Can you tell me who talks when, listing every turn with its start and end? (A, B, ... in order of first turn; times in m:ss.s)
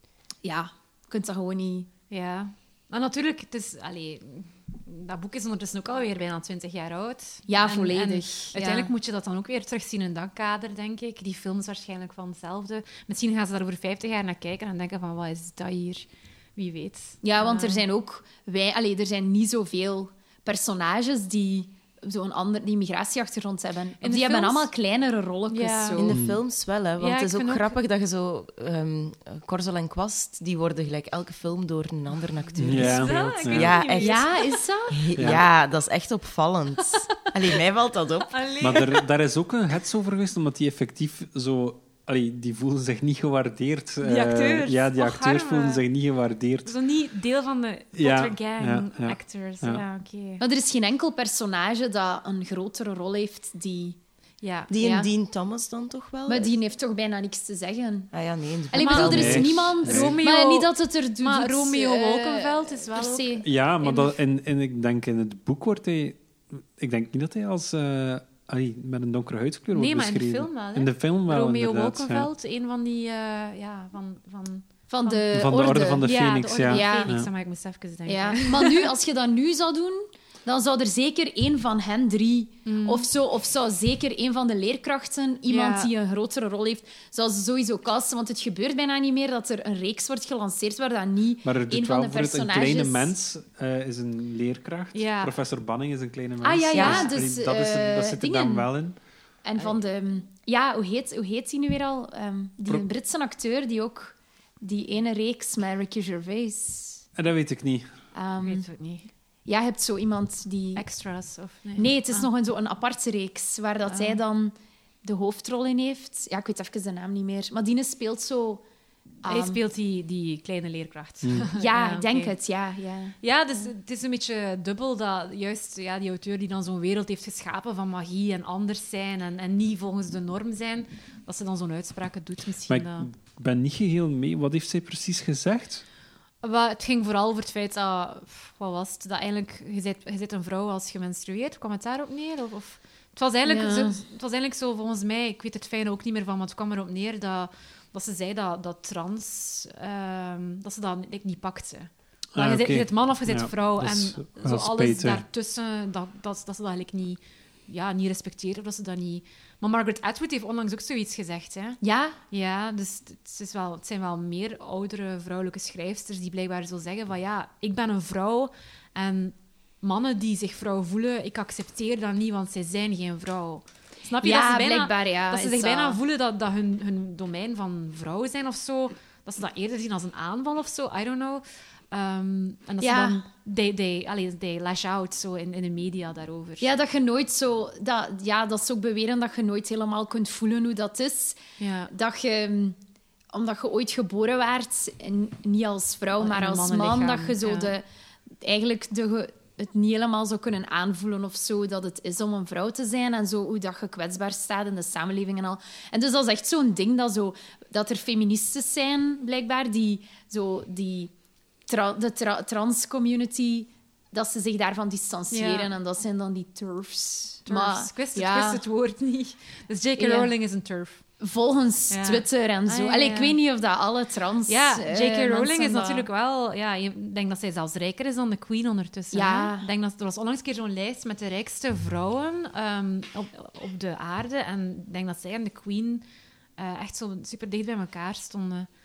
0:00.4-0:01.9 A
0:02.1-0:17.8 B
0:07.5-0:08.9 A
0:17.2-0:26.2 A
0:24.0-0:24.7 B
0:25.5-0:26.0 B
0:26.0-0:34.3 C
0:26.1-0:26.4 D
0:27.0-0:27.8 B
0:32.6-0:33.8 D
0:32.6-0:34.6 B
0:34.0-0:35.2 A
0:34.9-0:38.4 C
0:35.2-0:35.4 D
0:38.3-0:39.1 B
0:38.6-0:46.7 D
0:44.0-0:45.8 B
0:46.6-0:50.4 B
0:48.0-0:49.8 D
0:50.4-0:54.0 A
0:54.4-0:54.7 B
0:54.7-0:56.5 C
0:54.8-0:55.1 A
0:56.3-0:58.1 A
0:58.1-0:59.8 C
0:58.7-1:03.4 A
0:58.8-1:04.2 B
0:59.0-1:00.2 D
1:03.4-1:12.3 D
1:09.7-1:15.3 B
1:14.9-1:16.1 A
1:15.3-1:17.3 D
1:16.0-1:18.9 B
1:16.7-1:17.2 A
1:18.1-1:33.1 A
1:22.7-1:23.1 B
1:25.5-1:25.9 B
1:31.4-1:39.0 D
1:34.9-1:35.4 B
1:36.4-1:38.7 A
1:36.7-1:37.1 C
1:39.4-1:47.0 A
1:47.2-1:47.9 D
1:48.1-1:48.7 A
1:48.4-1:49.1 B
1:49.5-1:50.8 A
1:50.8-1:52.3 B
1:51.8-1:58.6 A
1:53.9-1:54.2 B
1:59.2-1:59.6 A
1:59.2-2:02.3 B
2:01.2-2:01.5 D
2:01.6-2:03.2 A
2:03.2-2:13.1 B
2:12.7-2:15.8 D
2:16.4-2:41.8 B
2:23.4-2:24.0 A
2:32.4-2:35.2 D
2:41.8-2:42.2 A
2:42.3-3:06.7 B
2:54.2-2:56.0 A
3:02.8-3:03.2 A
3:06.6-3:12.8 A
3:11.6-3:11.9 B
3:13.3-3:17.8 A
3:16.2-3:17.7 B
3:18.4-3:31.1 A
3:31.7-3:38.6 A
3:35.3-3:35.7 B
3:37.5-3:41.0 B
3:40.0-3:40.3 A
3:41.2-3:46.1 A
3:41.9-3:43.4 B
3:44.5-3:56.0 B
3:49.1-3:49.7 A
3:56.6-3:58.7 B